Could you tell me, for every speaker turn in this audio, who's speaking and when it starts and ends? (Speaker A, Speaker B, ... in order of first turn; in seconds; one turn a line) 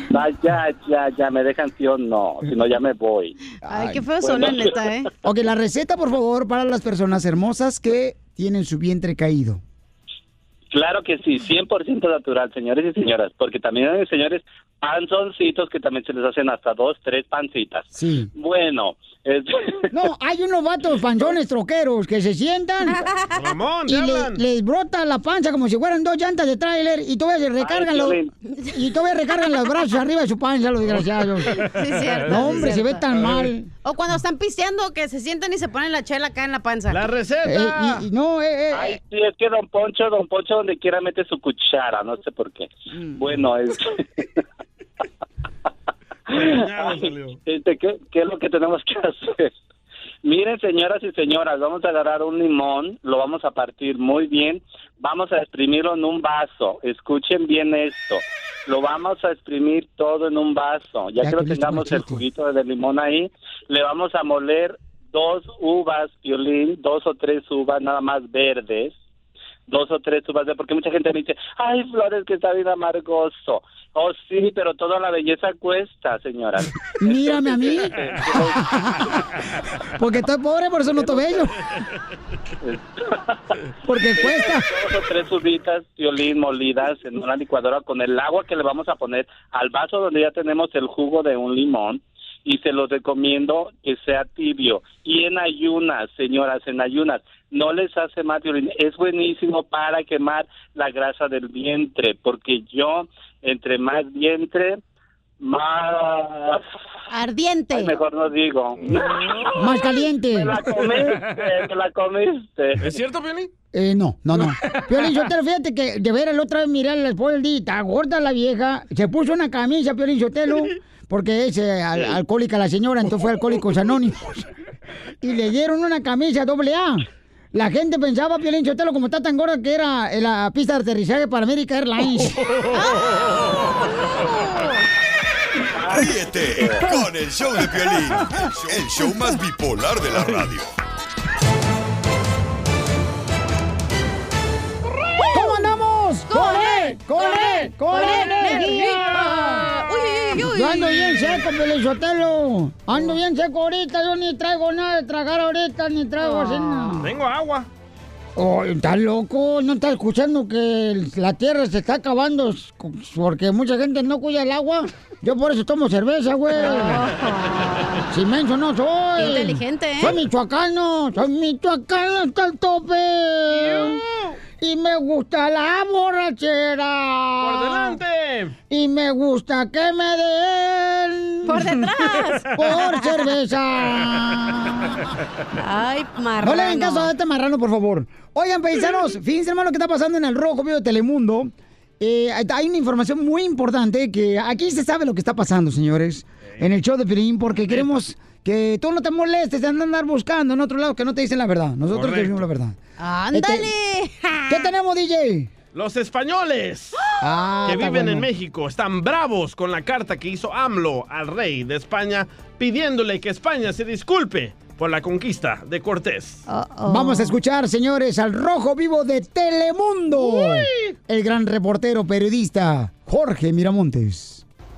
Speaker A: 0.1-3.4
Speaker B: 3.6-4.1
Speaker C: 3.7-5.1
Speaker A: 4.2-4.8
Speaker B: 5.2-9.6
Speaker A: 10.7-19.9
Speaker B: 17.9-18.3
Speaker B: 19.9-23.0
Speaker C: 22.9-23.3
Speaker D: 23.3-24.4
Speaker B: 23.9-28.2
Speaker A: 27.6-28.3
Speaker B: 28.7-31.5
Speaker D: 30.9-33.5
Speaker C: 31.6-33.0
Speaker B: 32.3-33.7
Speaker C: 33.8-37.0
Speaker D: 36.9-38.0
Speaker B: 37.4-38.9
Speaker A: 38.7-43.9
Speaker A: 46.3-49.5
Speaker D: 46.3-47.4
Speaker A: 50.2-68.9
Speaker B: 61.2-62.2
Speaker A: 69.7-78.6
Speaker B: 77.0-77.9
Speaker D: 77.7-78.2
Speaker B: 78.5-79.1
Speaker B: 80.0-81.5
Speaker A: 81.0-81.4
Speaker A: 82.6-83.3
Speaker B: 83.8-84.7
Speaker A: 84.2-104.8
Speaker A: 105.4-106.6
Speaker C: 107.1-107.9
Speaker A: 107.7-109.6
Speaker B: 109.6-110.5
Speaker A: 110.3-112.9
Speaker D: 111.0-111.3
Speaker D: 112.8-113.5
Speaker B: 113.7-124.4
Speaker D: 114.4-115.0
Speaker D: 123.2-123.9
Speaker B: 125.2-132.3
Speaker D: 132.3-133.3
Speaker A: 135.7-136.9
Speaker E: 135.9-140.7
Speaker B: 145.3-149.7
Speaker C: 146.3-151.3
Speaker D: 149.1-149.9
Speaker B: 150.4-157.1
Speaker C: 156.2-157.0
Speaker D: 157.0-157.7
Speaker B: 158.3-167.0
Speaker C: 166.5-167.9
Speaker B: 168.1-174.0
Speaker C: 169.2-170.2
Speaker D: 173.5-174.3
Speaker B: 174.6-178.0
Speaker D: 177.4-178.5
Speaker B: 178.7-181.8
Speaker C: 181.5-183.1
Speaker B: 182.5-185.0
Speaker C: 185.6-187.1
Speaker B: 186.4-202.8
Speaker D: 201.9-202.5
Speaker C: 203.0-204.7
Speaker B: 203.3-203.7
Speaker B: 204.5-205.5
Speaker D: 205.7-207.0
Speaker B: 207.2-208.2
Speaker D: 207.7-216.4
Speaker C: 216.5-217.4
Speaker B: 216.9-224.4
Speaker D: 220.3-220.7